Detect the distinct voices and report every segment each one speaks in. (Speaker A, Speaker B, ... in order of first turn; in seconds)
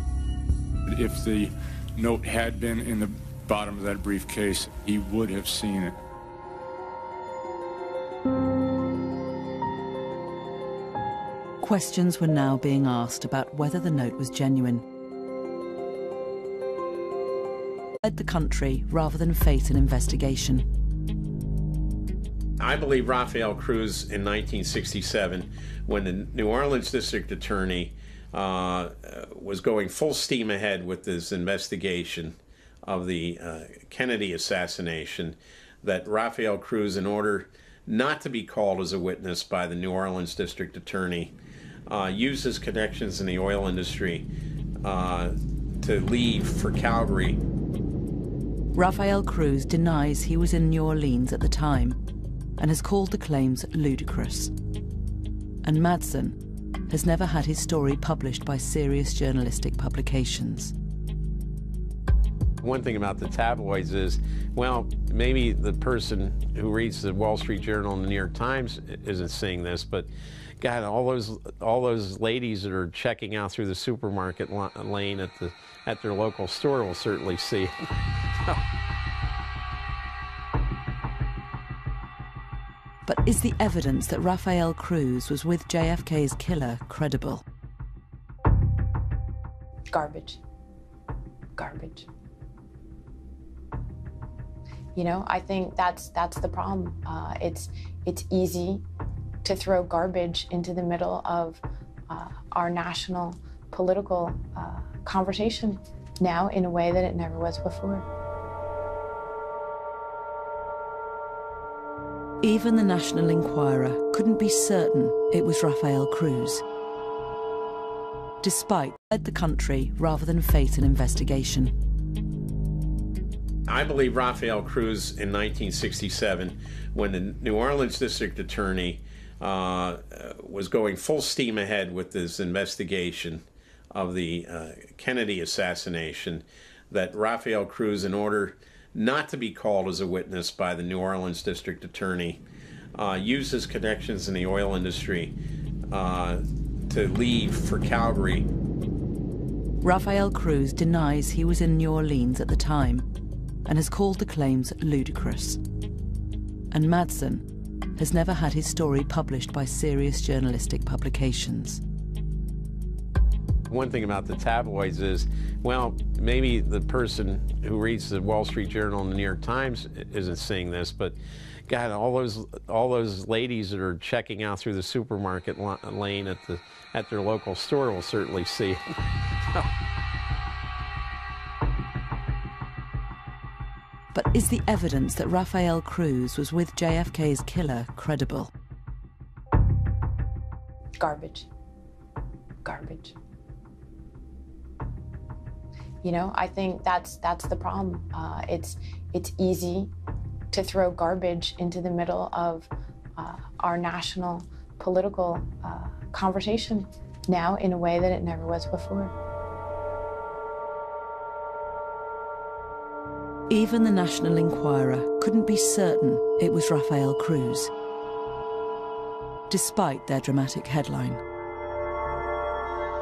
Speaker A: 0.9-6.0
Speaker B: 11.6-14.8, 18.0-20.7, 48.8-52.0, 52.6-54.5, 55.6-56.4, 56.9-60.7, 83.1-87.4, 112.4-116.6, 118.4-121.7, 149.8-153.1, 153.7-155.6, 156.7-157.4, 158.0-161.8, 184.1-188.5, 213.5-217.7, 219.5-221.2
Speaker C: 22.6-41.4, 41.9-44.3, 44.8-47.4, 62.6-70.1, 70.6-77.8, 123.7-142.4, 142.9-145.3, 145.9-148.5, 163.7-171.2, 171.7-178.8
Speaker D: 89.9-90.4, 91.6-92.1, 95.0-98.8, 99.4-108.0, 191.0-191.5, 192.7-193.1, 196.0-199.9, 200.5-209.1